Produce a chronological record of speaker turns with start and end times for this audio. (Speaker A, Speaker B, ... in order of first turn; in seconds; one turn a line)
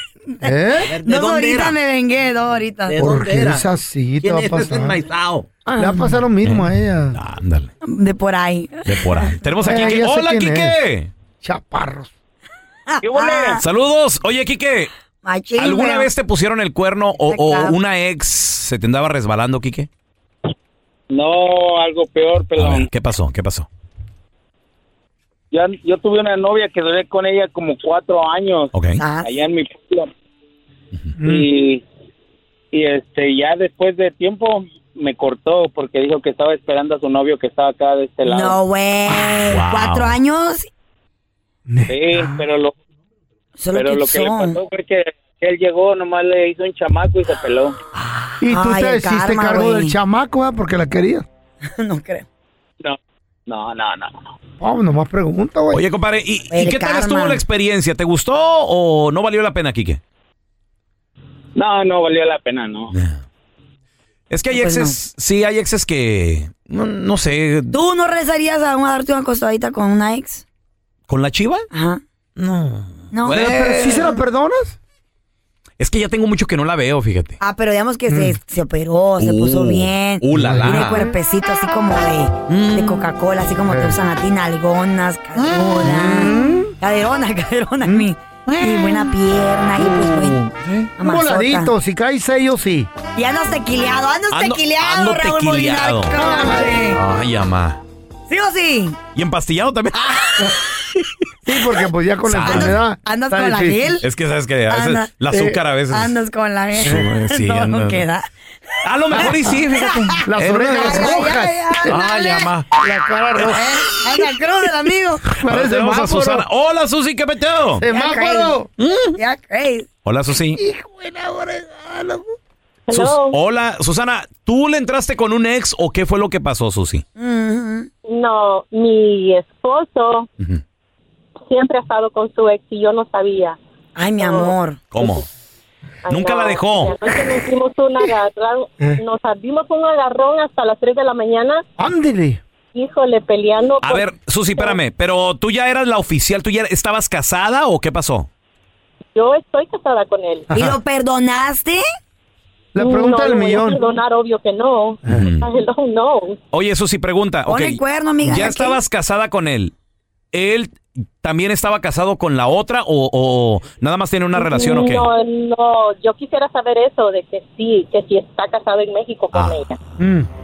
Speaker A: 0.4-1.0
Speaker B: 0.8-3.2
Speaker C: 0.9-1.8
Speaker C: 2.9-3.6
Speaker A: 3.0-5.0
Speaker C: 4.2-5.5
Speaker A: 5.7-7.2
Speaker B: 5.8-6.0
Speaker C: 6.4-7.7
Speaker B: 7.8-9.7
Speaker C: 8.8-11.1
Speaker A: 9.6-10.8
Speaker A: 11.4-12.1
Speaker B: 12.9-13.6
Speaker D: 13.0-13.6
Speaker C: 13.6-14.9
Speaker B: 15.2-16.1
Speaker C: 15.6-19.9
Speaker B: 17.3-17.8
Speaker D: 21.1-22.9
Speaker C: 22.6-23.7
Speaker D: 25.5-30.1
Speaker C: 28.7-29.0
Speaker B: 29.0-29.3
Speaker A: 31.2-31.4
Speaker D: 31.2-31.8
Speaker D: 32.7-38.6
Speaker B: 38.2-40.7
Speaker C: 39.5-40.2
Speaker A: 41.7-42.4
Speaker D: 41.9-42.7
Speaker B: 43.6-44.6
Speaker D: 43.7-47.8
Speaker B: 48.2-49.9
Speaker A: 48.4-51.3
Speaker B: 51.6-52.2
Speaker D: 52.8-54.3
Speaker A: 54.6-55.8
Speaker C: 55.7-60.0
Speaker B: 56.5-57.4
Speaker D: 61.5-62.9
Speaker C: 62.9-63.2
Speaker C: 64.3-67.8
Speaker B: 64.5-64.9
Speaker B: 67.7-70.4
Speaker C: 71.1-71.7
Speaker B: 71.7-72.0
Speaker C: 72.4-74.1
Speaker B: 73.1-73.4
Speaker A: 73.3-74.8
Speaker C: 75.8-77.4
Speaker B: 77.4-90.4
Speaker C: 79.2-81.1
Speaker A: 80.3-81.2
Speaker C: 82.5-83.1
Speaker A: 83.7-84.0
Speaker A: 85.3-86.7
Speaker A: 87.8-89.1
Speaker C: 89.8-90.9
Speaker B: 91.0-91.7
Speaker A: 91.0-92.9
Speaker B: 93.1-97.0
Speaker C: 94.3-97.8
Speaker A: 96.1-96.9
Speaker B: 98.3-99.0
Speaker C: 99.1-100.5
Speaker B: 100.1-100.5
Speaker A: 101.4-103.9
Speaker C: 102.3-102.8
Speaker B: 102.4-104.0
Speaker C: 104.0-106.2
Speaker B: 104.7-105.1
Speaker A: 105.3-105.6
Speaker B: 105.9-108.2
Speaker C: 106.7-108.0
Speaker C: 108.8-112.7
Speaker B: 109.1-110.2
Speaker A: 110.2-114.4
Speaker B: 110.8-112.5
Speaker C: 113.4-113.6
Speaker B: 113.5-115.2
Speaker A: 115.3-116.5
Speaker C: 115.4-117.8
Speaker A: 117.8-118.7
Speaker B: 117.9-118.6
Speaker B: 119.1-119.9
Speaker C: 120.0-120.6
Speaker A: 120.5-122.3
Speaker E: 122.9-123.4
Speaker C: 122.9-127.0
Speaker B: 127.2-127.9
Speaker E: 128.1-130.3
Speaker E: 131.5-133.6
Speaker B: 133.9-134.8
Speaker E: 134.2-135.2
Speaker C: 134.9-135.2
Speaker E: 136.1-141.6
Speaker C: 136.1-137.0
Speaker A: 141.8-142.4
Speaker E: 142.7-144.8
Speaker C: 143.8-148.3
Speaker E: 149.1-150.5
Speaker A: 150.5-150.8
Speaker B: 150.5-151.8
Speaker A: 152.7-153.8
Speaker E: 152.8-156.4
Speaker C: 155.1-155.5
Speaker C: 156.5-159.7
Speaker B: 157.5-158.8
Speaker C: 160.3-165.1
Speaker E: 164.3-169.8
Speaker C: 169.3-169.6
Speaker A: 170.0-170.3